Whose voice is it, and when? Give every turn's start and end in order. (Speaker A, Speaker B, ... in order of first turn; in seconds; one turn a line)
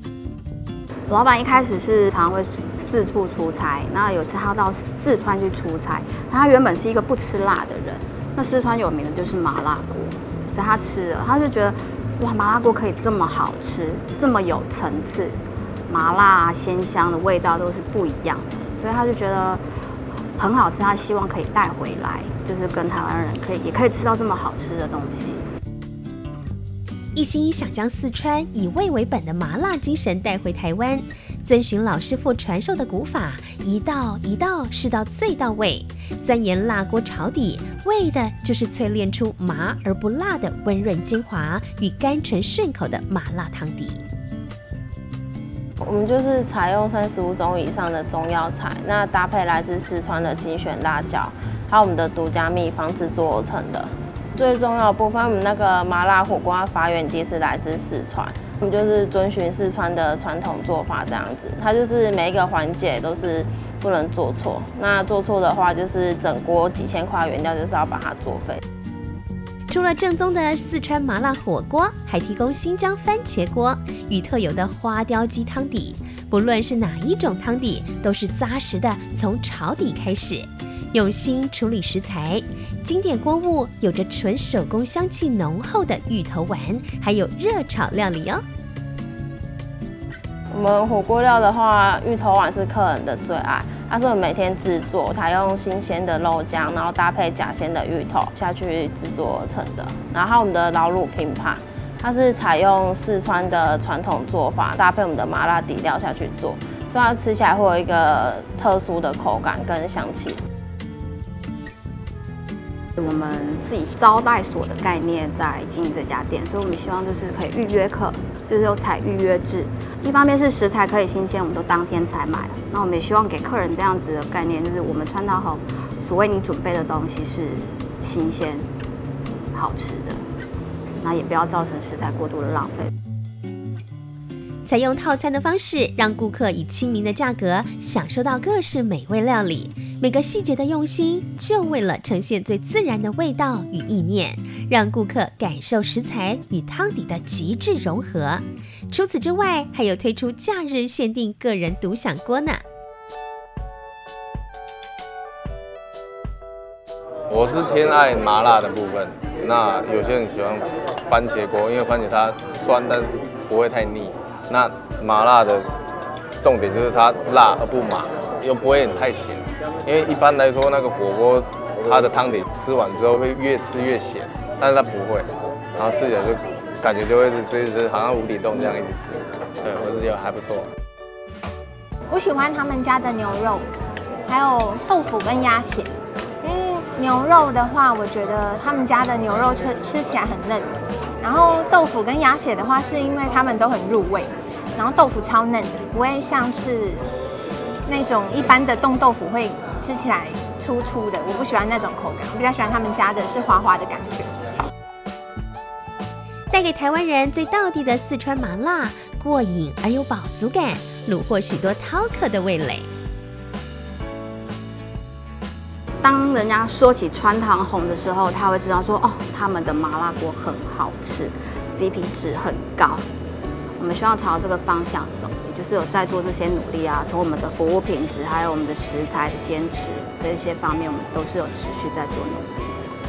Speaker A: 1.1-19.6
Speaker A: 20.4-25.4
Speaker B: 27.1-44.0
Speaker C: 45.8-68.6
Speaker B: 69.7-88.4
Speaker C: 90.5-110.4
Speaker A: 113.0-128.7
Speaker A: 129.5-130.2
Speaker A: 131.0-132.9
Speaker B: 134.7-152.6
Speaker D: 157.3-165.7
Speaker D: 166.4-180.7
Speaker E: 182.1-183.7
Speaker E: 184.3-197.1
Speaker E: 197.8-204.3
Speaker B: 206.5-212.9
Speaker A: 216.0-223.1
Speaker A: 223.8-232.8